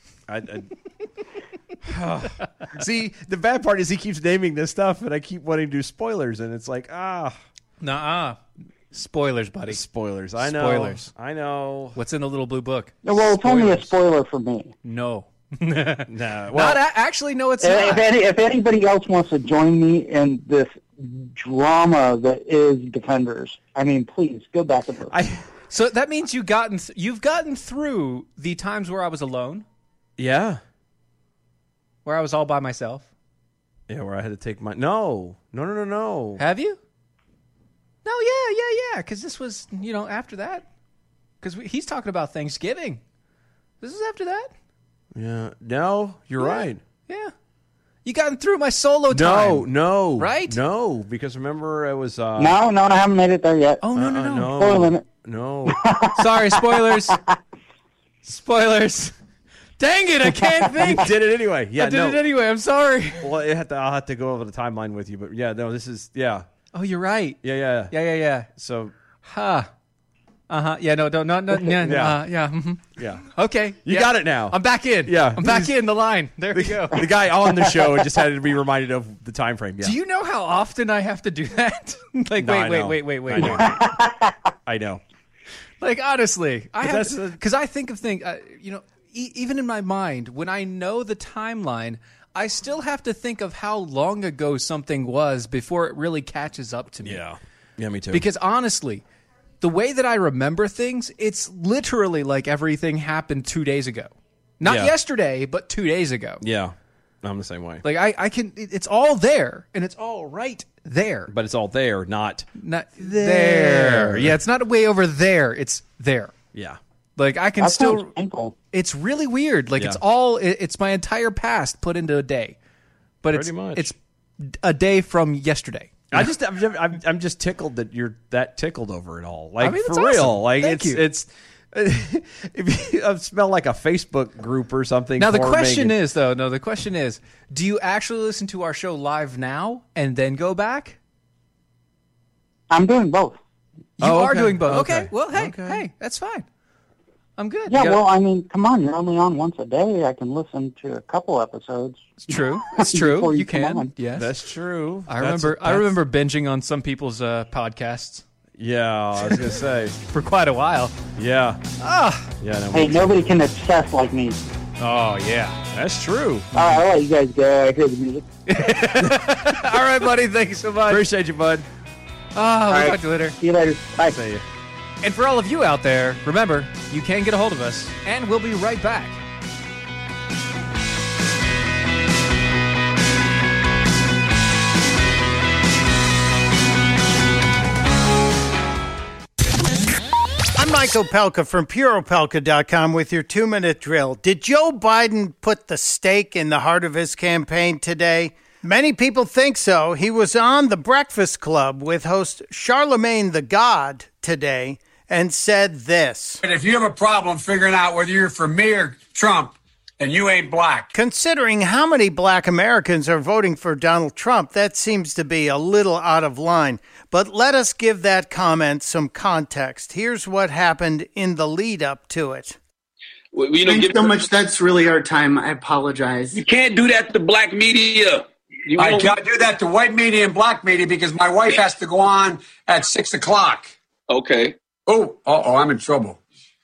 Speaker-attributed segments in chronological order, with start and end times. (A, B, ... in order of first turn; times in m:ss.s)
0:00.3-0:00.7 A
0:01.9-0:07.4 A
0:07.8-0:08.4 B
0:08.9-0:09.8 B
0:09.7-0:12.0 A
0:10.4-0:11.1 B
0:12.0-0:13.8 B
0:13.0-0:14.7 C
0:13.5-0:13.8 A
0:14.8-0:18.1 B
0:16.1-0:16.8 A
0:17.6-0:25.1 C
0:25.1-0:25.4 A
0:25.7-0:29.6 B
0:30.2-0:30.6 A
0:32.0-0:33.1 B
0:33.9-0:36.4 A
0:36.4-0:36.8 B
0:38.0-0:40.6 B
0:41.4-0:43.0 B
0:43.8-0:44.5 B
0:45.1-0:46.8 A
0:46.4-0:47.3 B
0:48.0-0:50.6 B
0:49.1-0:52.6 A
0:52.4-0:53.8 C
0:53.8-0:54.6 B
0:53.9-0:55.8 A
0:54.5-0:55.0 C
0:55.7-0:57.2 C
0:56.2-0:57.2 B
0:58.2-0:59.1 B
0:59.8-1:01.1 B
1:00.7-1:02.2 A
1:01.8-1:03.3 B
1:03.2-1:06.5 A
1:06.7-1:08.5 B
1:07.4-1:07.9 A
1:08.5-1:08.9 A
1:09.2-1:09.7 B
1:10.5-1:17.1 B
1:11.6-1:12.2 A
1:13.0-1:13.2 A
1:13.8-1:15.8 A
1:16.5-1:20.0 A
1:19.8-1:23.7 B
1:22.4-1:23.8 A
1:23.7-1:24.1 C
1:24.6-1:25.0 A
1:25.8-1:37.2 B
1:26.8-1:27.4 A
1:37.0-1:38.2 A
1:38.1-1:39.0 B
1:39.6-1:46.4 B
1:44.6-1:44.9 A
1:46.4-1:47.8 A
1:47.8-1:51.3 B
1:51.3-1:52.4 A
1:52.6-1:56.3 B
1:53.0-1:54.4 A
1:56.5-1:56.8 A
1:57.2-1:58.1 B
1:57.6-1:58.6 C
1:58.7-2:02.6 B
2:03.2-2:06.2 B
2:03.3-2:03.9 A
2:06.1-2:16.0 A
2:09.6-2:11.0 B
2:15.2-2:21.0 B
2:22.7-2:23.4 C
2:24.0-2:26.5 B
2:24.0-2:25.8 A
2:27.4-2:27.9 B
2:27.7-2:33.9 C
2:32.2-2:34.3 B
2:34.2-2:36.0 A
2:35.1-2:38.2 B
2:38.6-2:39.9 A
2:40.1-2:40.9 B
2:41.2-2:41.6 A
2:41.8-2:42.3 B
2:42.4-2:43.3 A
2:42.7-2:44.4 C
2:44.8-2:45.6 B
2:45.7-2:46.5 A
2:46.5-2:48.2 C
2:48.5-2:51.0 B
2:48.9-2:49.8 A
2:50.9-2:51.7 A
2:52.4-2:53.4 B
2:52.7-2:54.2 C
2:54.0-2:54.4 A
2:55.0-2:59.2 B
3:10.6-3:26.4 D
3:26.4-3:30.9 E
3:30.9-3:42.6 D
3:43.3-3:44.3 F
3:43.6-3:46.4 G
3:46.3-3:49.1 F
3:48.8-3:53.7 E
3:54.1-3:54.5 F
3:54.9-3:56.2 E